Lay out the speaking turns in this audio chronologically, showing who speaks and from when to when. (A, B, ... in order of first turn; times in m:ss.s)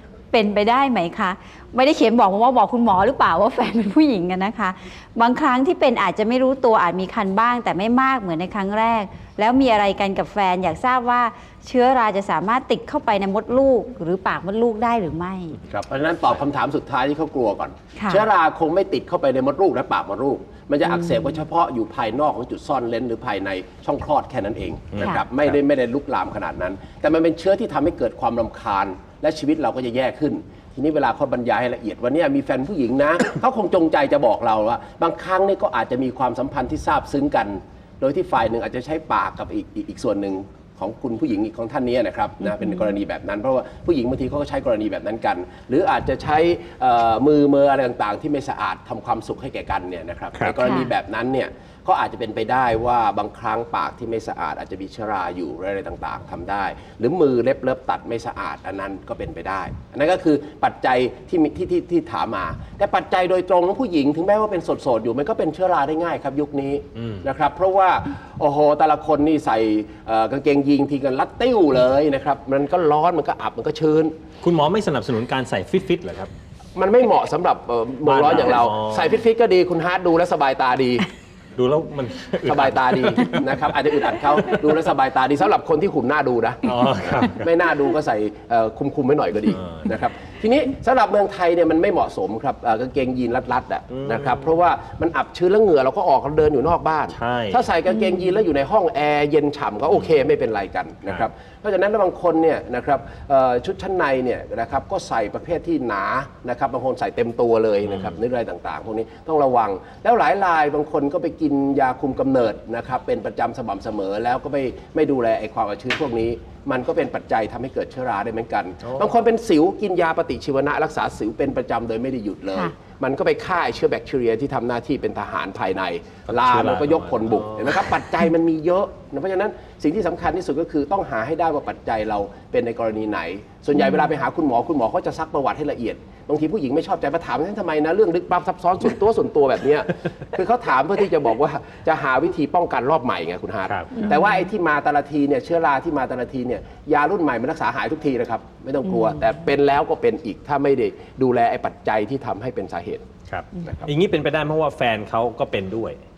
0:00.3-0:15.6 A
0:15.6-1:14.2 B
0:18.0-0:18.2 A
0:20.9-0:21.2 A
0:24.9-0:25.2 C
0:50.4-0:50.7 C
0:50.6-0:50.9 A
1:14.4-1:16.3 C
1:16.8-1:21.1 B
1:18.0-1:19.2 C
1:21.6-1:23.6 C
1:22.4-2:33.9 B
1:26.6-1:27.5 C
1:29.6-1:29.9 C
1:33.9-1:34.5 C
1:37.1-1:37.7 C
1:47.9-1:48.2 C
2:06.3-2:07.9 C
2:23.7-2:24.1 C
2:33.3-2:36.0 C